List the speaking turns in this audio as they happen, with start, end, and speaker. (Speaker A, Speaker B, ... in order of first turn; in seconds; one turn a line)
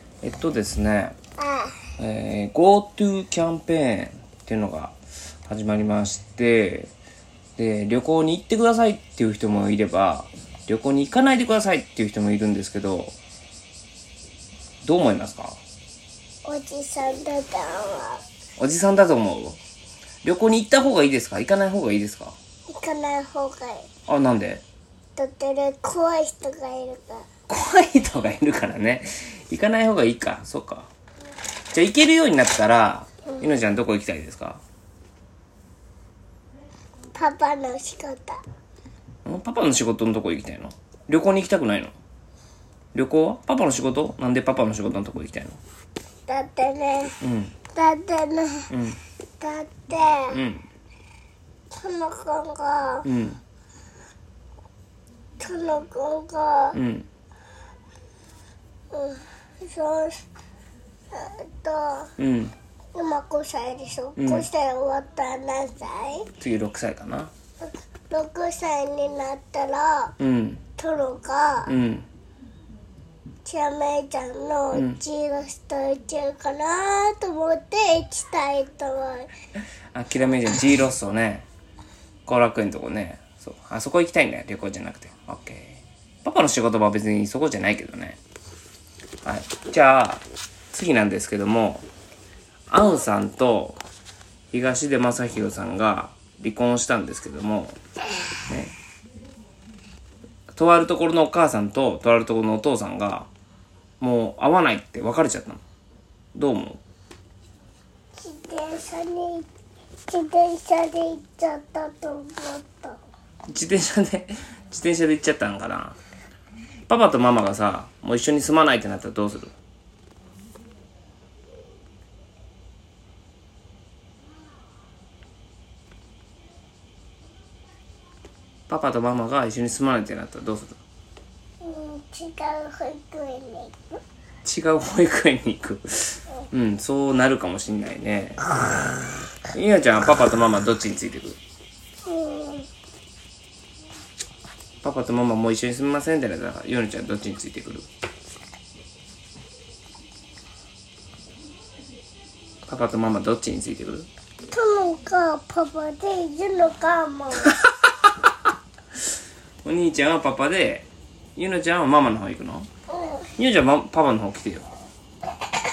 Speaker A: 0.2-1.1
Speaker B: 1.4-1.7
Speaker A: 2.0-4.9
Speaker A: 5.5-6.9
Speaker A: 7.6-13.1
Speaker A: 14.8-15.6
Speaker B: 16.4-18.2
Speaker A: 18.6-19.6
Speaker A: 20.2-22.4
Speaker B: 22.7-23.9
Speaker A: 24.1-24.6
Speaker B: 25.2-27.3
Speaker A: 27.5-30.9
Speaker A: 31.7-34.6
Speaker B: 37.1-38.4
Speaker A: 39.2-41.9
Speaker A: 42.9-45.6
Speaker B: 46.3-47.2
Speaker A: 47.2-47.5
Speaker B: 47.7-48.7
Speaker A: 48.7-49.0
Speaker B: 49.4-50.4
Speaker A: 50.3-50.6
Speaker B: 51.8-53.1
Speaker A: 53.0-53.4
Speaker B: 55.4-56.8
Speaker A: 56.7-57.1
Speaker B: 58.9-60.2
Speaker B: 61.1-62.1
Speaker A: 62.2-62.5
Speaker B: 63.0-66.3
Speaker A: 64.2-64.5
Speaker A: 66.4-67.3
Speaker B: 67.6-70.1
Speaker A: 70.2-70.6
Speaker B: 70.8-71.7
Speaker A: 71.7-72.0
Speaker B: 73.4-79.3
Speaker A: 74.7-75.0
Speaker A: 79.9-81.5
Speaker A: 82.3-88.2
Speaker A: 89.2-91.8
Speaker A: 92.7-93.8
Speaker A: 94.5-97.8
Speaker A: 98.5-98.7
Speaker A: 100.5-103.3
Speaker A: 104.0-105.6
Speaker A: 106.3-106.8
Speaker B: 108.2-109.5
Speaker B: 110.1-113.0
Speaker A: 113.5-116.0
Speaker A: 116.9-119.5
Speaker A: 128.7-130.8
Speaker B: 131.6-134.0
Speaker A: 134.4-138.4
Speaker A: 139.5-141.4
Speaker B: 142.1-142.7
Speaker A: 144.8-147.9
Speaker A: 152.7-154.1
Speaker B: 154.5-157.6
Speaker A: 159.7-162.7
Speaker B: 162.9-163.2
Speaker A: 163.4-164.7